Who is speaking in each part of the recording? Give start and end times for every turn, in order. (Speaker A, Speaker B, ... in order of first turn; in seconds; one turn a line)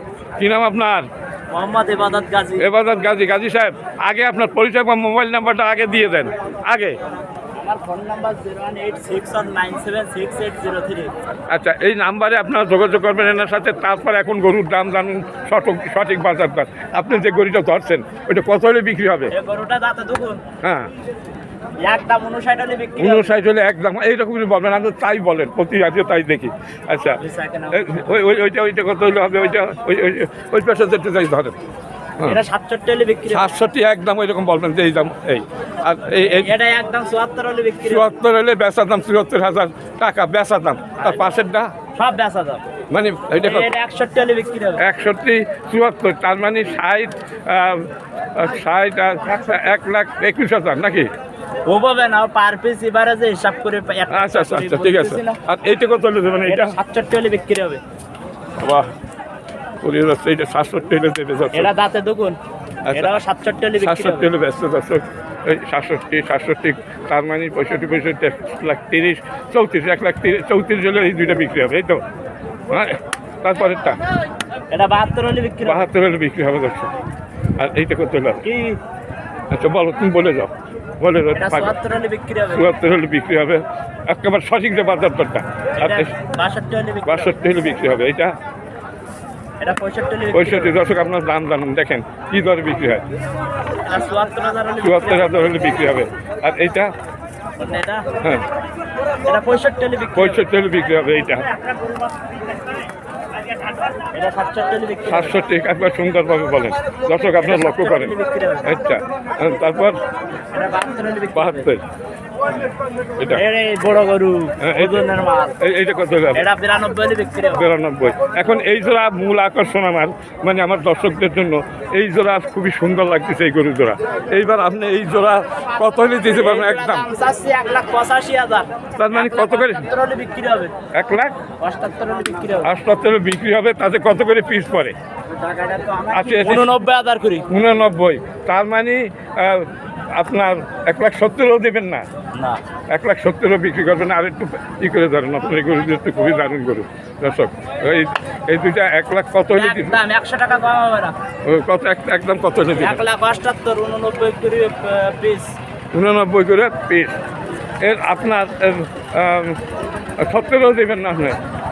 Speaker A: 0.4-1.1
Speaker B: 1.5-2.7
Speaker A: 2.6-7.0
Speaker B: 7.6-11.1
Speaker A: 11.5-19.3
Speaker B: 19.3-20.4
Speaker A: 20.6-20.9
Speaker B: 21.8-23.3
Speaker A: 23.0-27.2
Speaker B: 27.2-28.1
Speaker A: 27.7-31.5
Speaker B: 32.2-33.5
Speaker A: 33.3-36.5
Speaker B: 36.2-38.1
Speaker A: 37.8-41.7
Speaker B: 41.0-41.3
Speaker B: 41.9-42.6
Speaker A: 42.9-43.7
Speaker B: 43.3-44.8
Speaker A: 44.8-51.1
Speaker B: 49.3-49.6
Speaker B: 51.6-55.4
Speaker A: 54.1-56.8
Speaker B: 56.4-57.8
Speaker A: 58.6-58.9
Speaker A: 59.8-61.7
Speaker B: 61.5-62.4
Speaker A: 62.9-63.1
Speaker B: 62.9-64.3
Speaker A: 63.8-72.0
Speaker A: 72.7-74.0
Speaker B: 74.7-75.8
Speaker A: 75.6-76.9
Speaker A: 77.6-78.4
Speaker B: 78.4-78.8
Speaker A: 79.5-81.7
Speaker B: 81.3-82.7
Speaker A: 82.5-86.1
Speaker B: 85.8-87.3
Speaker A: 87.0-88.3
Speaker B: 89.6-91.0
Speaker A: 90.3-93.0
Speaker B: 93.8-95.7
Speaker A: 94.8-96.9
Speaker B: 97.6-98.0
Speaker B: 99.2-100.5
Speaker A: 100.1-101.5
Speaker B: 101.5-102.0
Speaker B: 103.9-105.4
Speaker A: 105.1-110.0
Speaker B: 107.3-108.7
Speaker B: 110.5-111.7
Speaker A: 111.3-111.8
Speaker B: 113.3-115.6
Speaker A: 114.6-115.0
Speaker A: 115.6-116.5
Speaker B: 116.3-117.7
Speaker A: 117.5-127.1
Speaker B: 126.2-130.7
Speaker A: 128.9-129.9
Speaker A: 130.9-131.3
Speaker B: 131.6-132.7
Speaker A: 132.6-134.9
Speaker B: 135.3-137.5
Speaker A: 136.1-136.7
Speaker A: 137.5-142.1
Speaker B: 142.3-142.6
Speaker A: 142.9-150.0
Speaker B: 149.5-151.1
Speaker A: 151.4-153.0
Speaker B: 152.7-155.6
Speaker A: 155.9-157.2
Speaker A: 157.8-159.6
Speaker A: 160.2-161.4